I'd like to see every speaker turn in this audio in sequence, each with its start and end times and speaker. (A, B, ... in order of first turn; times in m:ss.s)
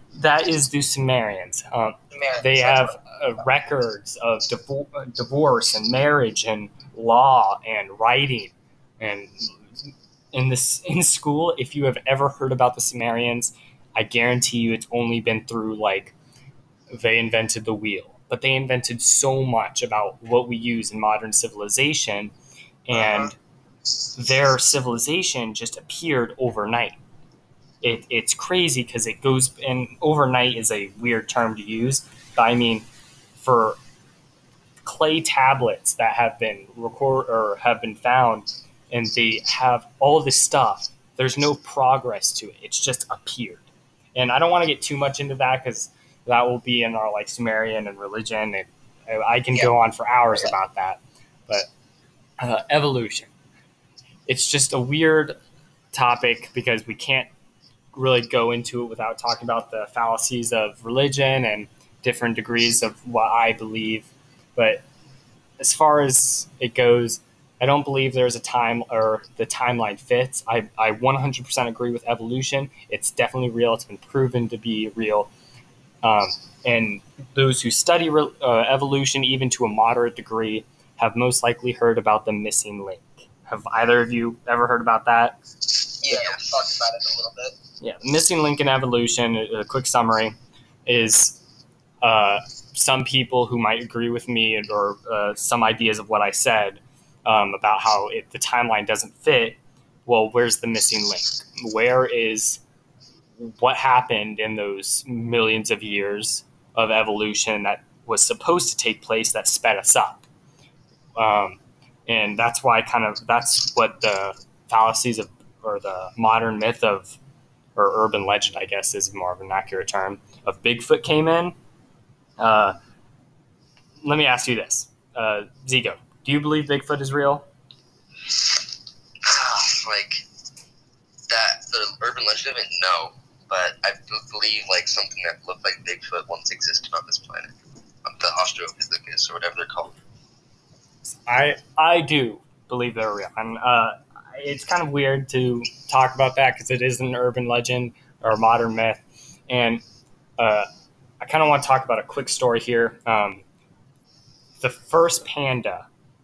0:00.1-0:09.7 A
0:02.1-0:03.0 B
0:10.3-0:16.1 A
0:16.9-0:22.3 A
0:22.8-0:23.4 A
0:22.9-0:23.3 B
0:24.2-0:27.0 A
0:27.8-0:33.8 A
0:34.8-0:51.7 A
0:52.4-0:53.3 A
0:54.3-0:55.4 A
0:55.9-0:57.3 A
0:57.9-1:04.8 A
1:05.6-1:15.3 A
1:16.0-1:25.4 A
1:26.0-1:27.5 B
1:26.1-1:26.4 C
1:27.8-1:31.4 A
1:32.0-1:42.6 A
1:43.4-1:50.2 A
1:51.2-1:57.2 A
1:57.7-2:01.6 A
2:02.4-2:02.8 A
2:04.0-2:07.5 A
2:09.2-2:10.2 C
2:11.3-2:17.5 C
2:18.0-2:20.0 C
2:21.2-2:29.8 A
2:30.4-2:30.7 A
2:31.2-2:33.4 A
2:34.6-2:35.9 A